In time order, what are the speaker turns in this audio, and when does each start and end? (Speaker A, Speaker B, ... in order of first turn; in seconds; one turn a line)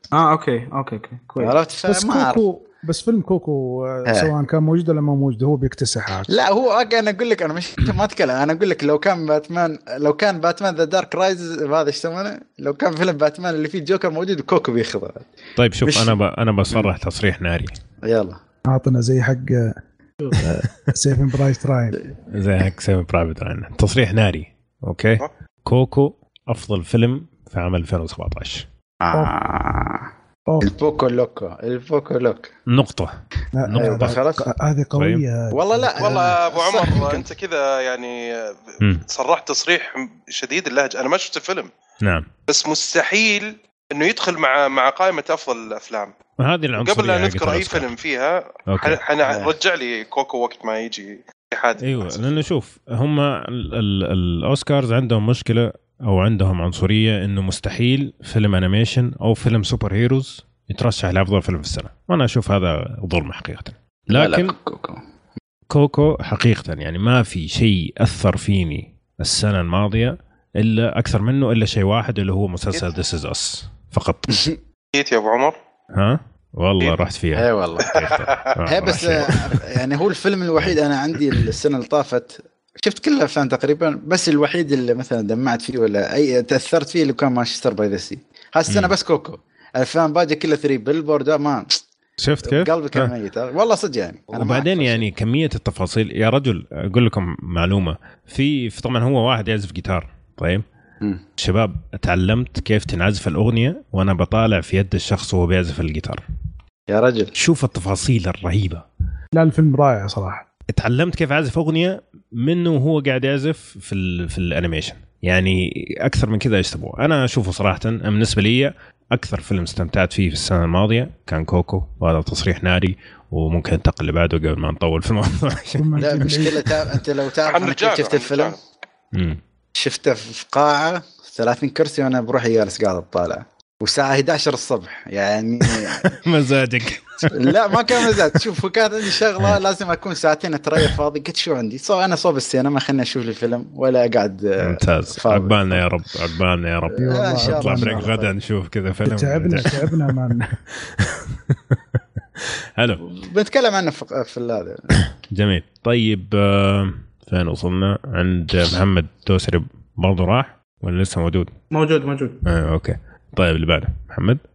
Speaker A: 0.1-1.6
Speaker B: 1.4-2.4
Speaker C: 1.9-6.3
Speaker B: 6.3-15.3
Speaker D: 15.6-17.8
Speaker B: 15.8-16.1
Speaker B: 18.0-18.4
Speaker C: 18.7-19.8
Speaker C: 20.3-22.0
Speaker D: 22.3-28.6
Speaker B: 29.0-30.1
Speaker C: 29.1-29.4
Speaker B: 30.6-32.5
Speaker D: 32.7-34.2
Speaker C: 33.5-36.3
Speaker B: 33.7-34.5
Speaker D: 35.0-35.2
Speaker B: 35.5-37.2
Speaker E: 36.0-41.7
Speaker D: 42.0-42.3
Speaker E: 42.5-46.1
Speaker D: 46.4-47.9
Speaker E: 46.8-52.2
Speaker D: 48.7-49.0
Speaker B: 49.2-49.5
Speaker D: 51.8-64.5
Speaker B: 64.1-65.0
Speaker D: 65.7-74.5
Speaker E: 74.9-75.5
Speaker D: 75.9-79.6
Speaker B: 77.3-78.0
Speaker E: 78.0-78.5
Speaker B: 78.7-91.8
Speaker D: 88.7-88.9
Speaker D: 92.2-93.1
Speaker B: 92.4-95.1
Speaker D: 94.3-100.6
Speaker D: 101.4-106.2
Speaker B: 106.9-107.3
Speaker D: 107.3-108.8
Speaker C: 109.3-110.5
Speaker D: 110.7-125.9
Speaker C: 125.8-127.0
Speaker B: 126.0-128.5
Speaker E: 127.5-128.6
Speaker D: 129.1-129.4
Speaker B: 129.7-136.2
Speaker D: 135.8-138.4
Speaker B: 137.3-145.8
Speaker D: 144.6-153.0
Speaker B: 147.0-148.3
Speaker C: 147.0-148.0
Speaker C: 149.1-150.5
Speaker B: 153.0-155.0
Speaker D: 155.0-161.5
Speaker A: 161.7-162.4
Speaker D: 162.4-164.4